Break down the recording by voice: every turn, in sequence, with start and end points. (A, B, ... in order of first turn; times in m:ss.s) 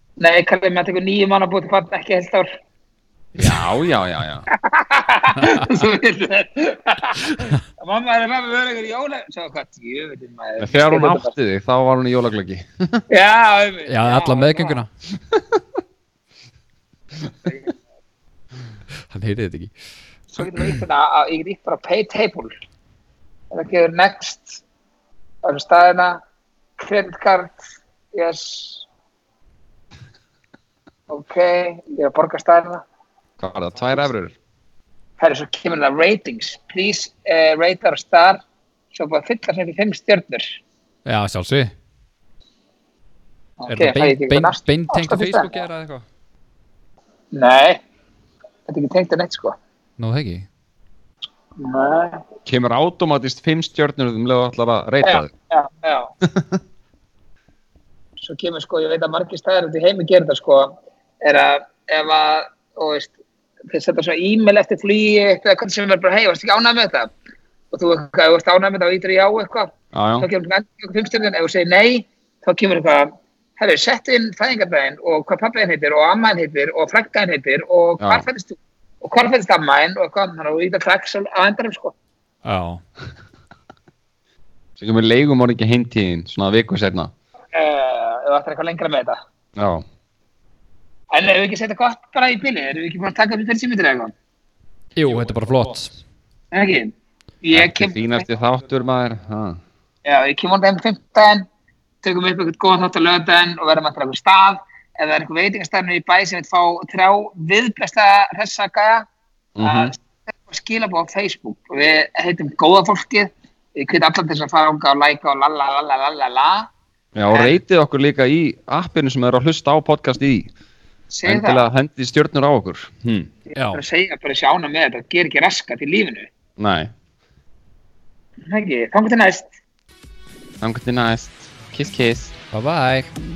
0:00.2-0:02.6 A
0:03.4-0:04.5 B
0:04.5-0:11.3 A
0:10.6-0:13.0 B
0:13.1-0:14.8 A
0:13.9-0:14.9 C
0:17.5-0:17.7 A
0:19.1-0:19.7 C
0:20.3-0:22.5 A
0:20.4-0:20.8 C
0:23.5-0:24.6 A
0:25.4-0:26.2 A
0:26.8-0:27.6 A
0:28.1-0:28.9 A
0:31.1-0:32.8 A
0:33.4-0:34.4 B
0:35.2-0:38.4 A
0:38.9-0:40.6 A
0:41.1-0:41.7 C
0:43.6-0:45.6 A
0:43.7-0:46.0 C
0:47.3-0:47.8 A
0:48.7-0:49.6 A
0:50.0-0:50.5 C
0:51.6-0:52.2 A
0:52.5-0:55.3 B
0:55.0-0:56.1 A
0:56.2-0:56.6 B
0:58.2-1:03.2 A
1:03.7-1:07.1 A
1:07.7-1:22.0 A
1:09.9-1:10.3 B
1:18.0-1:18.3 B
1:22.4-1:22.8 C
1:24.8-1:27.1 B
1:27.5-1:29.2 A
1:29.6-1:29.8 B
1:31.1-1:34.1 A
1:35.0-1:35.9 C
1:36.5-1:38.0 A
1:37.5-1:39.6 B
1:40.0-1:41.5 A
1:42.0-1:49.1 A
1:49.6-1:49.9 B
1:49.6-1:56.7 A
1:57.2-2:00.5 B
1:57.3-1:57.6 A
2:01.1-2:01.7 A
2:01.3-2:03.3 B
2:03.5-2:06.3 A
2:03.6-2:03.8 C
2:06.6-2:06.9 B
2:08.5-2:09.5 A
2:10.6-2:12.3 B
2:12.5-2:13.1 C